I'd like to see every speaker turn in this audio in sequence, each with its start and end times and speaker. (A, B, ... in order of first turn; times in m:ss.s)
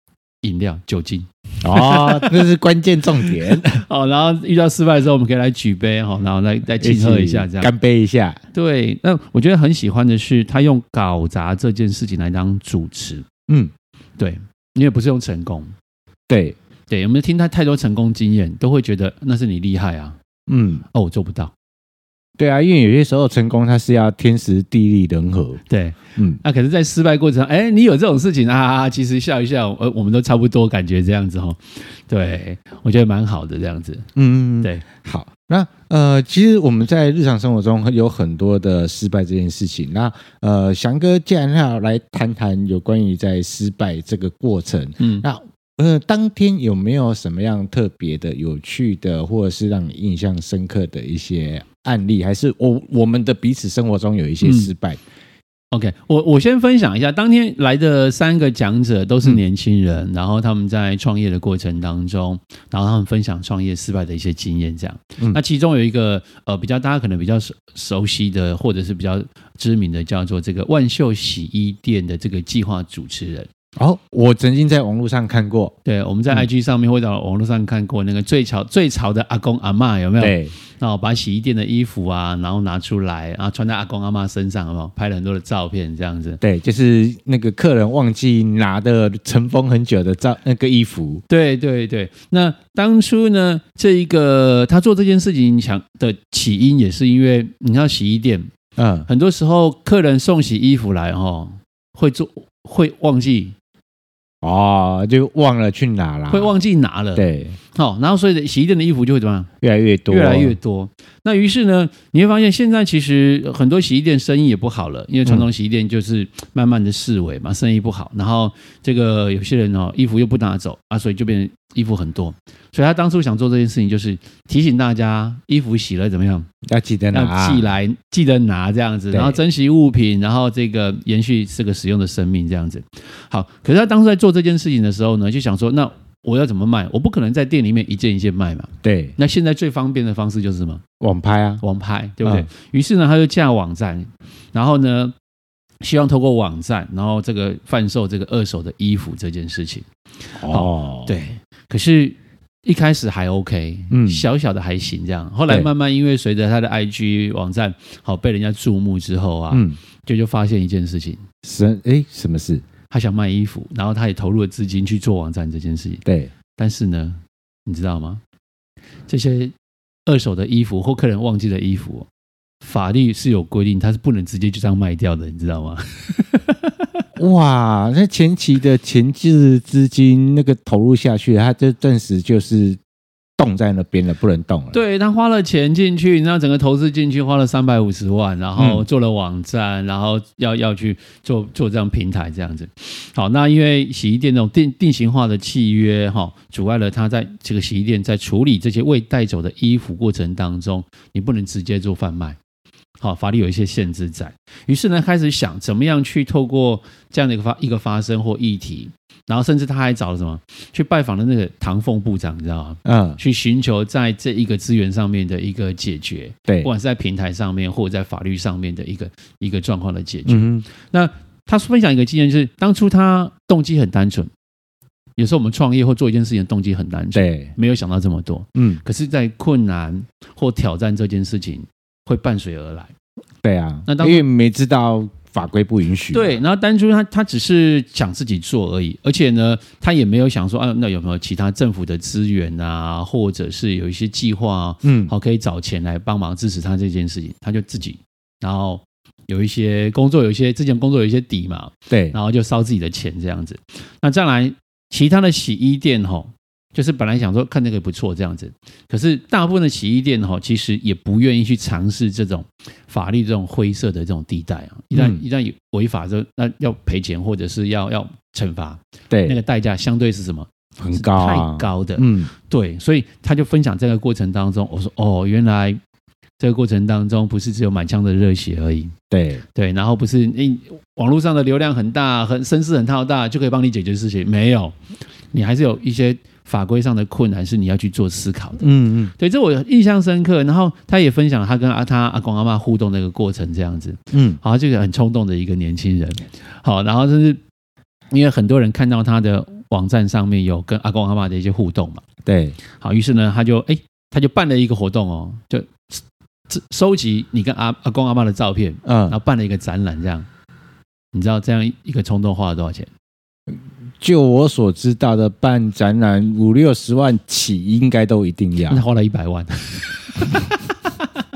0:00.4-0:02.5 A
0:01.6-0:03.8 B
0:03.7-0:07.7 A
0:06.8-0:08.4 B
0:08.5-0:13.3 A
0:14.2-0:15.7 A
0:16.3-0:16.6 B
0:16.9-0:20.2 A
0:20.5-0:20.8 B
0:20.9-0:21.5 A
0:22.4-0:25.6 B
0:25.7-0:34.0 A
0:26.2-0:26.4 B
0:34.2-0:55.0 B
0:45.0-0:45.2 A
0:54.4-0:54.7 A
0:55.7-1:13.5 A
1:13.8-1:15.7 B
1:15.8-1:26.4 A
1:20.2-1:20.5 B
1:26.4-1:31.2 B
1:31.3-1:38.5 A
1:38.8-1:39.1 B
1:39.1-1:43.6 A
1:44.4-1:46.5 B
1:46.3-1:49.5 A
1:47.2-1:47.6 B
1:49.6-1:50.6 B
1:50.1-2:06.5 A
2:06.7-2:07.7 B
2:07.1-2:20.8 A
2:09.1-2:09.4 B
2:18.8-2:19.2 B
2:21.0-2:21.6 B
2:21.6-2:25.1 A
2:25.8-2:29.9 A
2:30.4-2:41.2 A
2:30.4-2:31.1 B
2:33.9-2:34.3 B
2:39.5-2:39.8 B
2:41.4-2:42.6 B
2:42.9-2:46.0 A
2:46.0-2:46.3 B
2:46.6-2:48.2 A
2:49.1-2:49.5 A
2:50.1-2:52.1 A
2:52.6-2:56.7 A
2:57.2-3:02.8 B
3:03.4-3:04.8 B
3:04.7-3:22.4 A
3:08.6-3:08.8 B
3:23.0-3:44.3 A
3:32.8-3:33.2 B
3:40.3-3:40.6 B
3:45.2-3:52.9 A
3:47.1-3:47.5 B
3:48.6-3:48.8 B
3:53.4-3:56.4 B
3:53.9-3:54.2 A
3:56.1-4:35.8 A
4:04.8-4:05.1 B
4:11.9-4:12.2 B
4:24.9-4:25.2 B
4:29.1-4:29.4 B
4:30.8-4:32.3 B
4:36.4-4:38.9 A
4:39.1-4:39.4 B
4:39.6-4:44.8 A
4:45.3-4:57.4 A
4:48.6-4:49.1 B
4:54.1-4:54.4 B
4:58.1-5:02.0 A
5:02.3-5:02.6 B
5:02.8-5:10.3 A
5:08.8-5:09.2 B
5:11.1-5:12.9 A
5:14.0-5:18.8 B
5:18.7-5:20.6 A